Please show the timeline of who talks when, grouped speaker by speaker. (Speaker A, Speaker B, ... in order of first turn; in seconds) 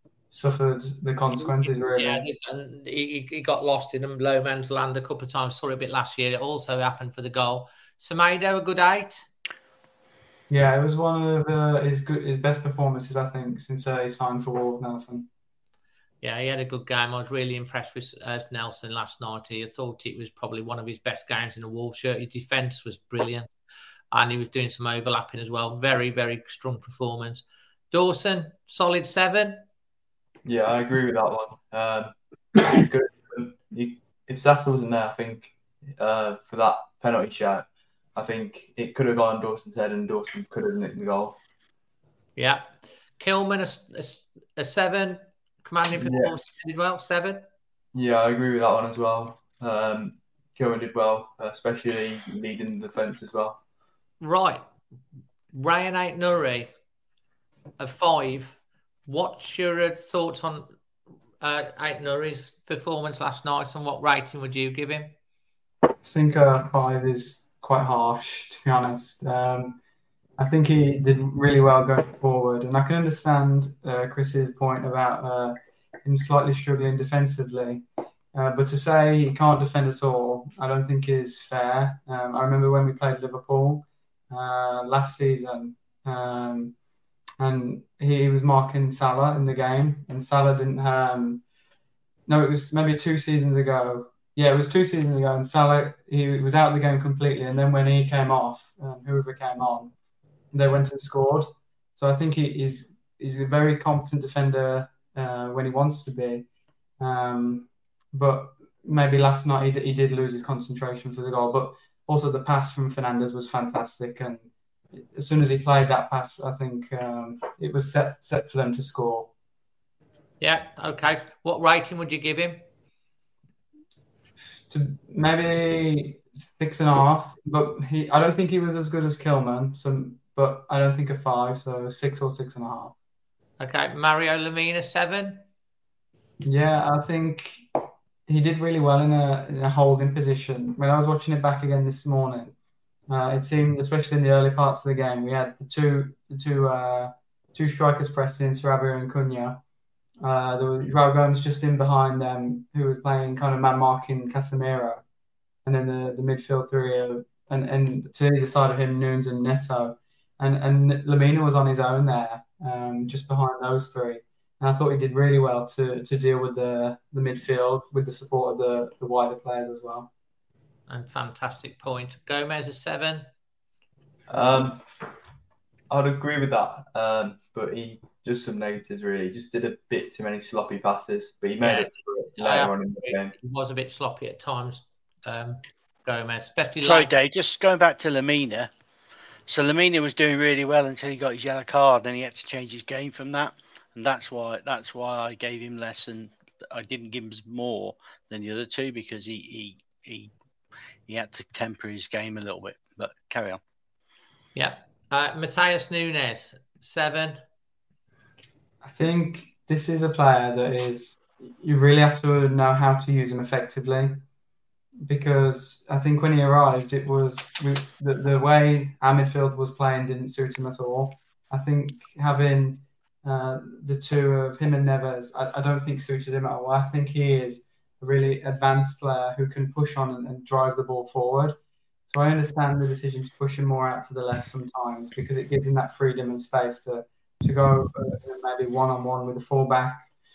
Speaker A: 0.3-2.3, 10.5-15.3, 66.0-69.8, 70.4-86.7, 87.4-91.4, 92.3-99.9, 100.5-106.5, 107.0-114.5, 115.0-119.3, 124.7-132.9, 136.4-137.7, 138.3-142.6, 143.1-149.6, 150.2-155.0, 155.7-170.1, 208.8-214.2, 215.1-231.6, 232.1-240.1
Speaker B: 1.9-9.3, 16.2-23.5, 24.1-29.6, 42.4-42.7, 43.2-47.5, 54.2-54.6, 55.5-56.7, 57.8-60.7, 61.4-65.1, 120.4-122.6, 133.6-135.4, 170.9-173.3, 181.6-187.1, 204.6-207.4
Speaker C: 30.4-41.4, 46.0-46.3, 47.9-53.6, 174.3-174.8, 175.9-183.3
Speaker D: 186.8-188.7, 189.5-200.3, 201.1-203.6